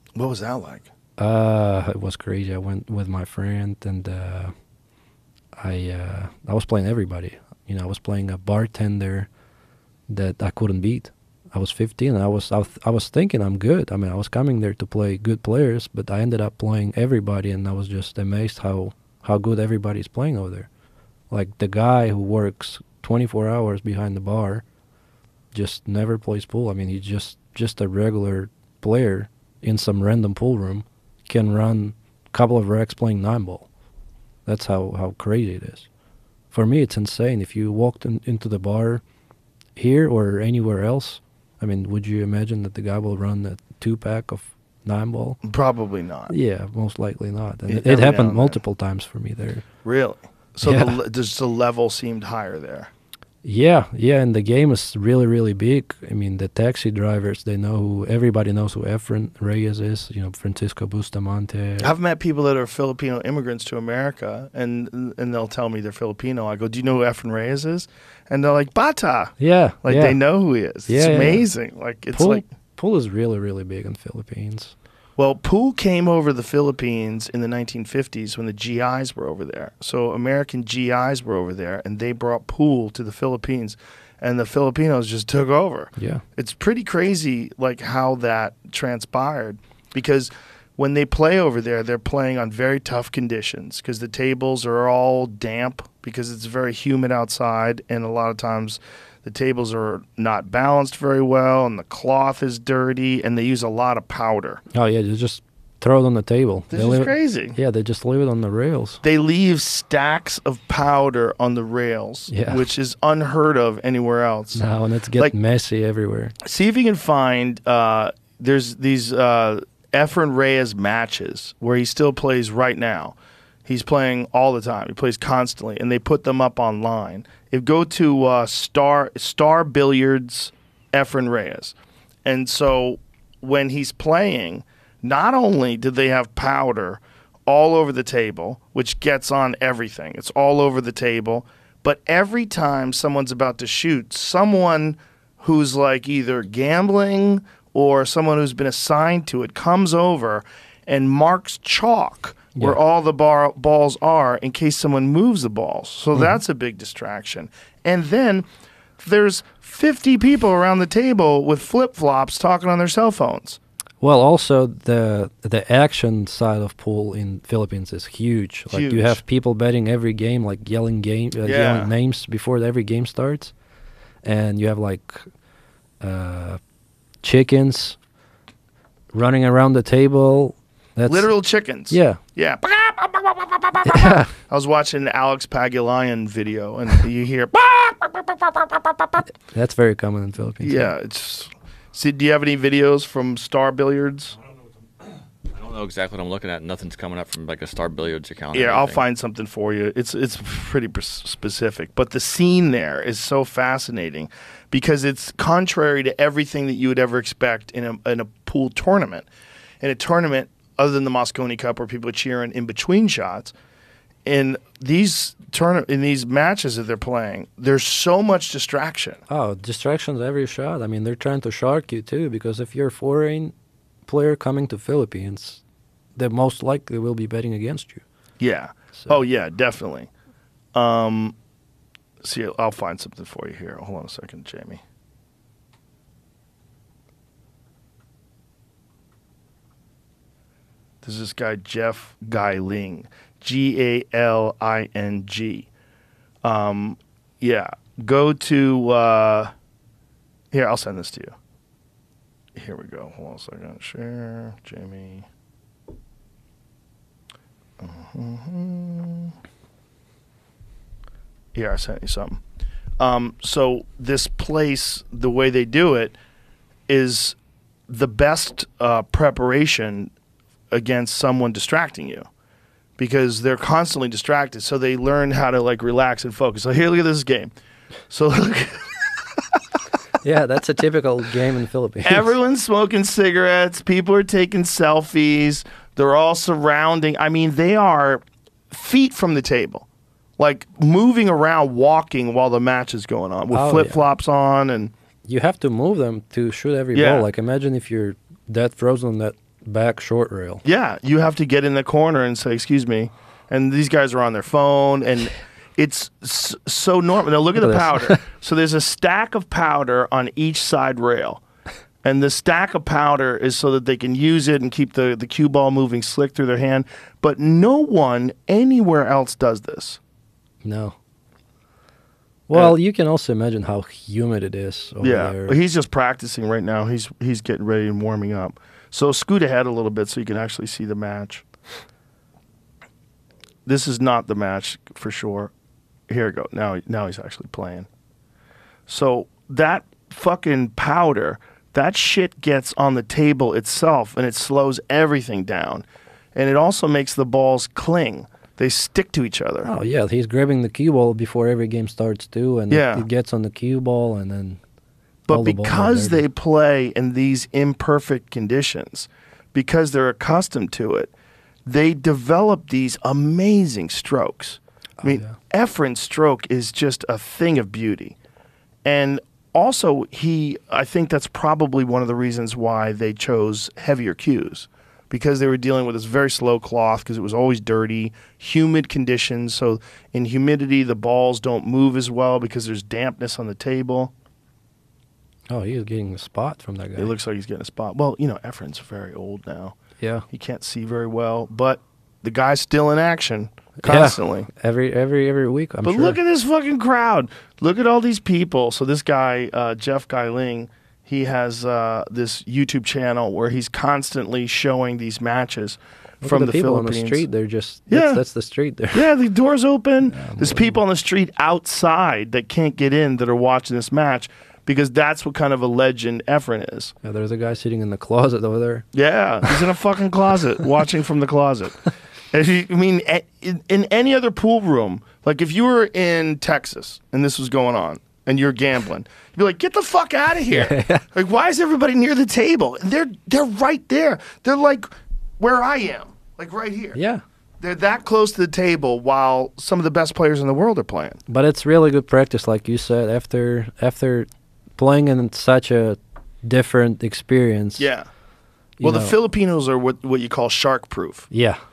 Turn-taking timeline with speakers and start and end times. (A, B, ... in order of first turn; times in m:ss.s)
0:00.2-0:00.9 A
0:01.2-0:04.5 B
0:05.6-0:09.3 B
0:10.1-0:20.7 B
0:21.3-0:24.6 B
0:25.5-0:33.7 B
0:34.4-0:35.9 B
0:36.5-0:39.0 B
0:39.8-0:45.4 B
0:45.4-0:46.3 A
0:46.3-0:49.6 B
0:47.7-0:48.6 A
0:49.8-0:52.9 A
0:50.6-0:51.0 B
0:53.4-1:01.9 B
1:01.8-1:12.4 A
1:09.4-1:10.2 B
1:10.9-1:11.4 B
1:12.1-1:14.7 B
1:15.2-1:44.6 A
1:26.0-1:26.2 B
1:44.7-1:49.0 B
1:46.7-1:47.6 A
1:49.0-1:54.6 A
1:52.3-1:52.6 B
1:54.5-1:56.3 B
1:56.4-2:03.1 A
2:03.6-2:38.4 A
2:39.0-2:43.6 A
2:44.0-2:53.5 B
2:48.7-2:49.2 A
2:51.4-2:51.9 A
2:54.2-2:55.3 B
2:56.0-2:56.6 B
2:57.2-2:58.0 B
2:59.1-3:01.3 B
3:01.1-3:09.2 A
3:01.9-3:02.2 B
3:03.8-3:04.3 B
3:09.4-3:10.9 B
3:10.6-3:14.3 A
3:15.5-3:19.0 C
3:18.5-3:29.3 A
3:29.8-3:33.5 A
3:34.2-3:39.2 A
3:39.3-3:43.5 B
3:44.0-3:45.6 B
3:46.2-3:48.0 B
3:48.4-3:50.1 A
3:50.7-3:51.4 A
3:52.2-3:54.8 A
4:01.0-4:05.7 A
4:06.4-4:09.5 A
4:10.5-4:11.3 A
4:12.6-4:15.2 A
4:17.8-4:19.3 A
4:21.5-4:22.4 A
4:23.0-4:26.2 A
4:26.9-4:27.4 A
4:27.9-4:30.1 A
4:30.7-4:32.2 A
4:33.0-4:37.5 A
4:38.1-4:39.0 A
4:40.2-4:42.3 B
4:42.0-4:49.8 A
4:50.4-4:54.9 A
4:53.5-4:54.0 B
4:55.3-5:00.6 B
4:56.9-4:57.3 A
5:00.6-5:11.4 A
5:07.6-5:08.2 B
5:12.0-5:20.0 A
5:20.6-5:21.0 B
5:22.5-5:25.6 B
5:25.0-5:31.4 A
5:33.6-5:35.5 A
5:36.1-5:37.9 A
5:38.9-5:49.7 A
5:49.6-5:54.6 B
5:52.7-5:53.0 A
5:55.3-6:01.1 A
5:55.3-5:56.2 B
6:01.6-6:08.2 A
6:05.0-6:05.4 B
6:08.8-6:24.1 A
6:25.5-6:27.1 B
6:27.0-6:29.8 A
6:30.0-6:30.2 B
6:30.3-6:34.5 A
6:33.8-6:36.2 B
6:35.8-6:47.2 A
6:46.2-6:49.1 B
6:47.9-6:48.2 A
6:48.9-6:56.9 A
6:50.1-6:50.8 B
6:57.0-6:58.8 B
6:58.9-7:14.9 A
7:10.5-7:11.0 B
7:15.4-7:17.0 A
7:16.9-7:17.2 B
7:17.6-7:21.2 A
7:21.3-7:27.9 B
7:27.8-7:28.1 A
7:28.8-7:29.2 B
7:28.8-7:31.3 A
7:31.3-7:31.6 B